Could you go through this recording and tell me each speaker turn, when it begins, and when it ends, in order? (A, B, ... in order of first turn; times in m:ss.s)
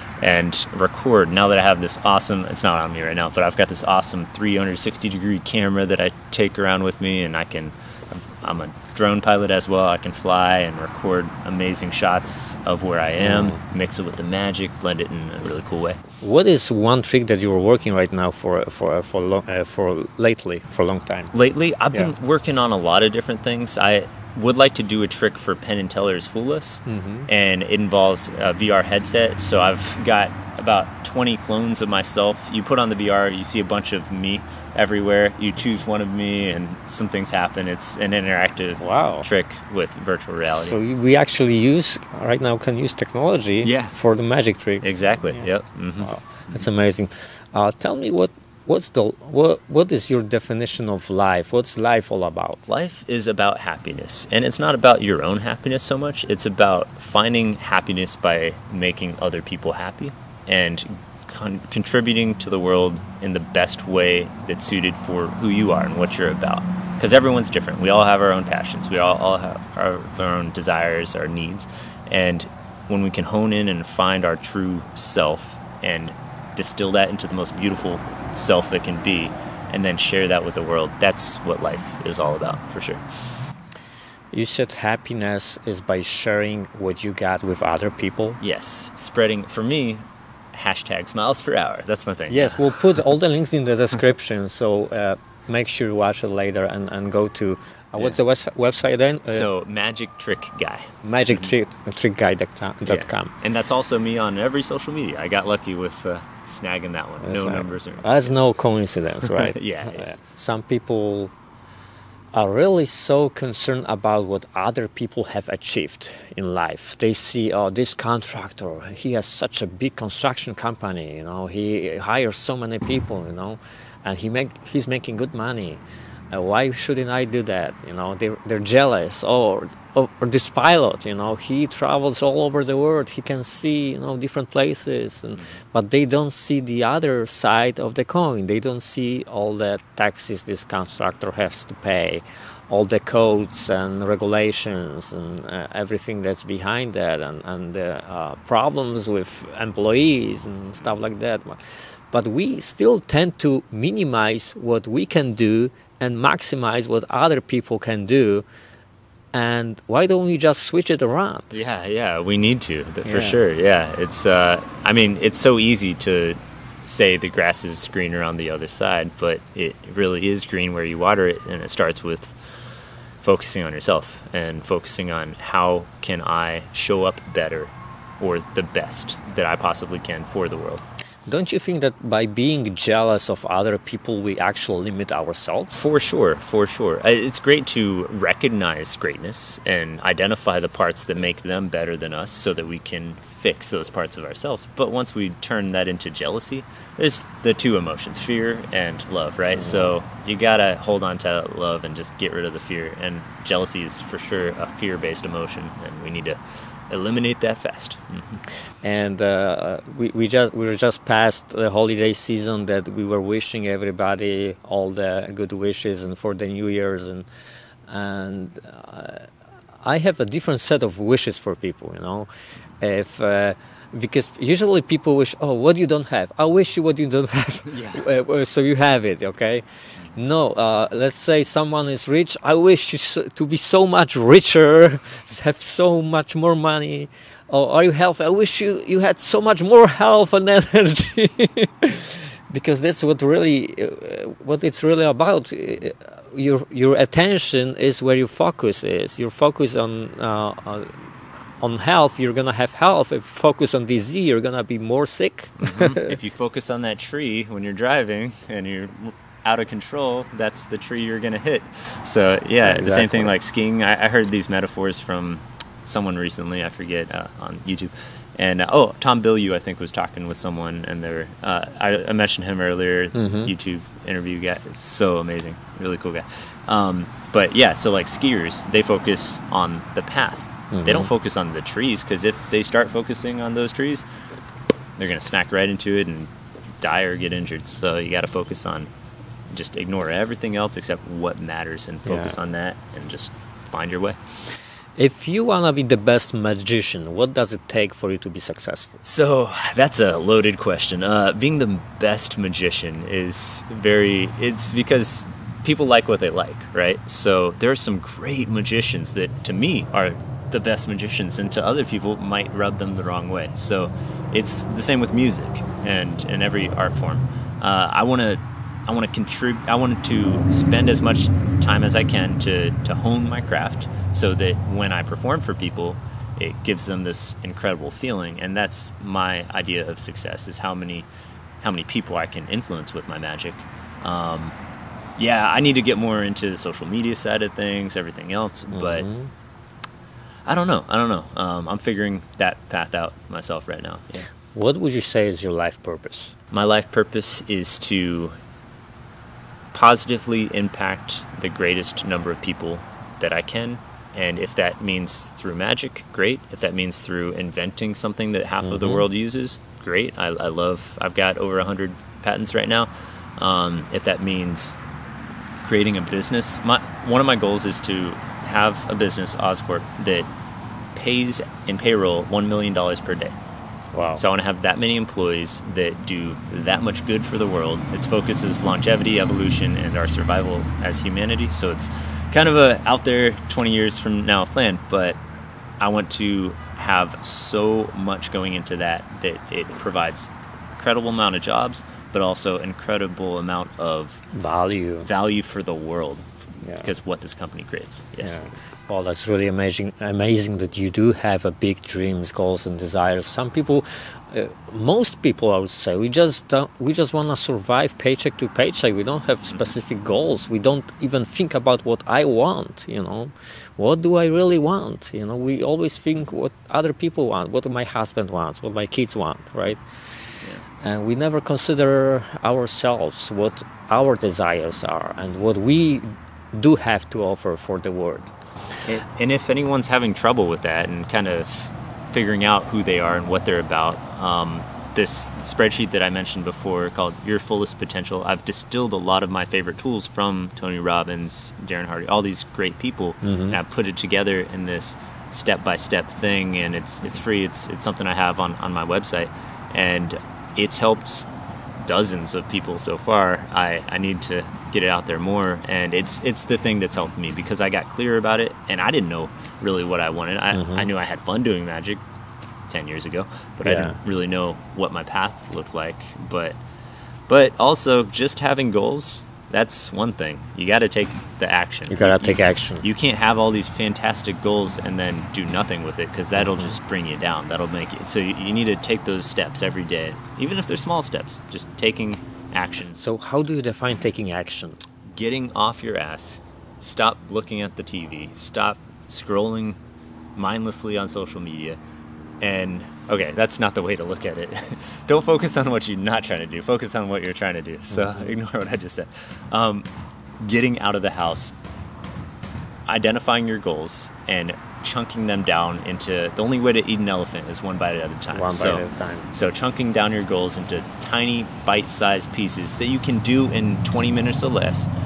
0:00.2-0:16.0 A
0:13.2-0:13.6 B
0:16.2-0:21.3 B
0:21.3-0:40.8 A
0:26.9-0:27.3 B
0:38.8-0:39.3 B
0:40.4-0:45.5 B
0:43.6-0:44.0 A
0:44.8-0:46.6 A
0:46.0-0:52.6 B
0:52.7-1:23.0 A
1:24.3-1:28.4 B
1:28.4-1:33.0 A
1:32.3-1:39.5 B
1:39.3-1:41.5 A
1:41.0-1:43.3 B
1:42.9-1:48.3 A
1:47.2-1:51.3 B
1:49.3-1:50.2 A
1:52.3-2:31.6 B
2:32.1-2:38.5 B
2:39.3-2:41.5 B
2:41.5-2:52.4 A
2:43.0-2:43.4 B
2:53.2-3:00.8 A
3:01.3-3:05.8 B
3:05.7-3:26.4 A
3:19.6-3:19.9 B
3:26.9-3:28.4 A
3:28.8-3:37.3 B
3:37.9-3:39.3 B
3:39.8-3:42.3 B
3:42.8-4:11.1 B
3:47.7-3:48.1 A
4:11.6-4:16.1 B
4:15.6-4:44.0 A
4:22.6-4:23.3 B
4:33.2-4:33.5 B
4:40.7-4:41.1 B
4:45.0-4:46.3 A
4:46.8-4:48.9 A
4:49.5-4:54.2 A
4:52.1-4:52.4 B
4:55.0-4:59.0 B
4:59.0-5:31.1 A
5:31.6-5:34.6 A
5:35.2-5:39.1 A
5:38.7-5:39.3 B
5:40.4-5:44.3 A
5:44.5-5:46.3 B
5:46.5-5:48.4 A
5:49.7-6:04.8 A
5:58.6-5:59.1 B
6:05.6-6:10.3 A
6:10.9-6:13.4 A
6:13.9-6:14.2 B
6:14.2-6:25.2 A
6:25.8-6:34.2 A
6:34.3-6:35.1 B
6:35.0-6:38.4 A
6:36.6-6:36.9 B
6:38.2-6:59.8 B
7:00.8-7:08.3 B
7:08.9-7:31.3 A
7:23.2-7:23.6 B
7:31.8-7:42.0 A
7:40.5-7:40.9 B
7:42.7-7:46.6 A
7:43.6-7:44.0 B
7:47.3-8:03.0 A
7:51.9-7:52.9 B
7:56.4-7:56.8 B
8:03.0-8:04.8 B
8:05.1-8:09.8 A
8:10.4-8:11.8 A
8:12.4-8:19.9 A
8:17.9-8:18.2 B
8:20.4-8:21.5 A
8:22.9-8:34.9 A
8:28.3-8:29.3 B